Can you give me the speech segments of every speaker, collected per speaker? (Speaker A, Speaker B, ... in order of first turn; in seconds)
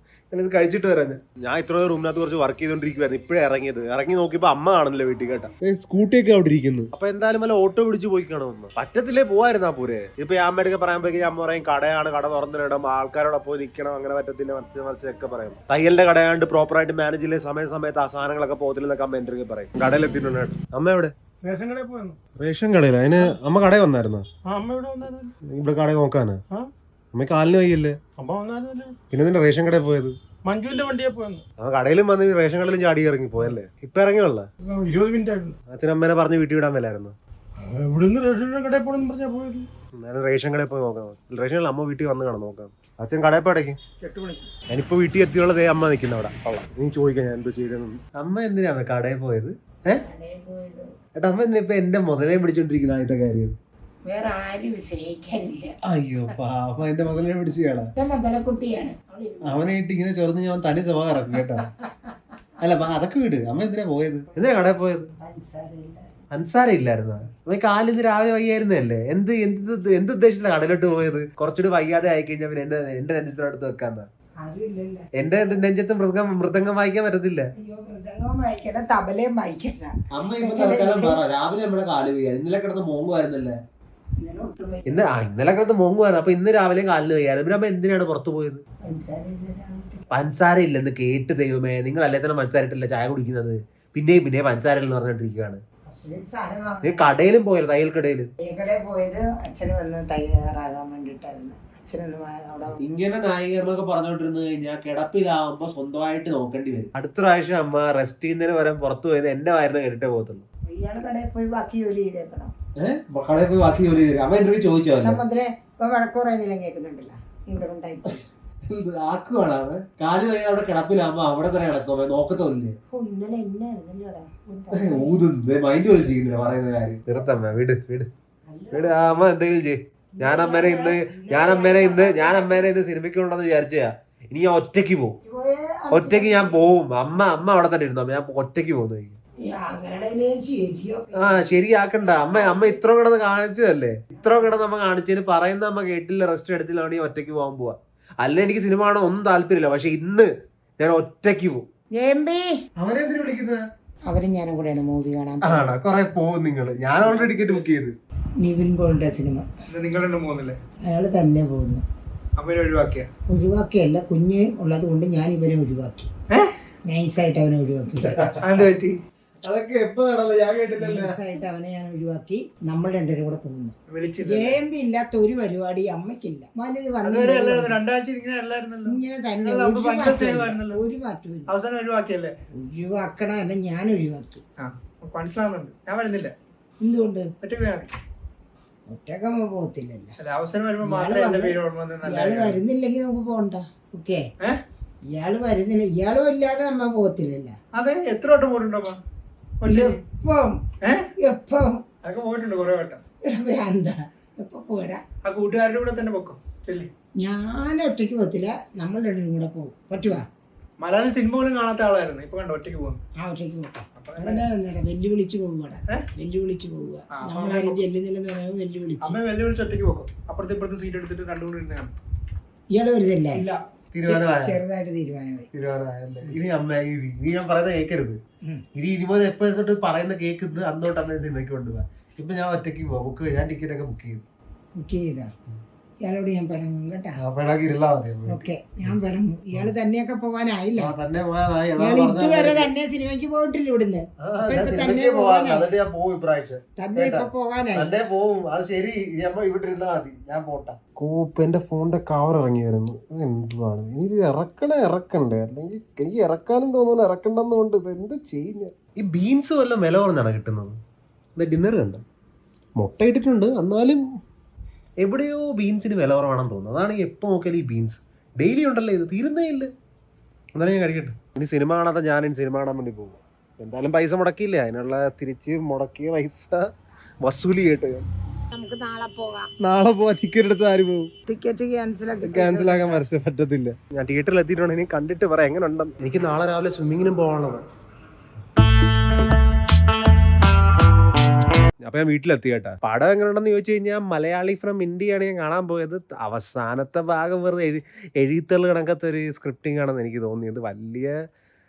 Speaker A: 0.3-21.1, 22.4-24.2, 25.5-26.4, 27.1-28.0, 29.1-30.1, 31.6-34.5, 35.7-37.1, 40.0-43.8, 44.7-50.0, 51.2-53.5, 55.9-57.9, 59.4-61.7, 62.6-65.1, 66.3-74.1, 75.2-77.5, 80.1-83.6, 84.9-88.6, 90.1-95.6, 96.8-98.3, 102.8-110.5, 112.8-115.2, 118.7-122.8, 124.7-128.1, 128.7-135.2, 135.9-139.2, 141.2-151.7, 152.8-153.6, 155.4-157.9, 168.1-168.4, 169.4-171.2, 223.9-224.6, 225.5-228.2, 228.8-234.2, 237.2-239.0, 240.8-242.7, 244.2-260.8, 261.4-262.0, 262.8-264.0, 265.0-269.7, 270.6-276.7, 277.2-278.1, 279.6-281.1, 282.2-287.6, 291.8-301.1
Speaker B: 21.4-22.2, 24.5-25.3, 28.2-29.0, 30.4-31.4, 34.6-35.5, 37.6-39.7, 44.0-44.5, 157.0-157.6, 159.7-160.6, 162.4-163.1, 168.4-169.0, 173.9-174.6, 177.0-180.8, 181.5-182.4, 184.6-186.3, 187.4-188.0, 190.2-192.6, 197.7-199.0, 199.6-200.0, 200.8-201.1, 202.0-203.0, 205.2-206.9, 210.8-213.0, 214.0-214.5, 217.1-217.8, 219.0-221.9, 223.3-223.6
Speaker C: 49.9-50.9, 54.1-55.8, 58.0-59.7, 61.8-62.1, 65.2-66.1, 74.4-75.5, 77.6-81.2, 84.2-85.2, 88.8-90.1, 95.9-97.2, 98.4-102.8, 110.7-112.5, 115.0-118.2, 122.9-125.3, 128.5-129.3, 130.2-132.7, 135.2-136.7, 139.4-141.5, 142.0-142.8, 151.9-152.6, 154.1-155.8, 158.4-159.5, 160.9-161.8, 163.3-166.1, 166.8-168.4, 170.8-177.8, 178.8-181.5, 182.6-184.4, 186.8-187.3, 188.9-190.2, 190.8-194.3, 195.1-197.6, 199.7-200.6, 201.2-201.8, 203.2-205.0, 207.2-210.3, 213.2-219.2, 222.7-223.4, 224.0-225.5, 234.8-235.3, 236.0-237.2, 238.3-240.9, 241.8-245.7, 246.8-247.9, 278.5-279.5, 281.3-283.1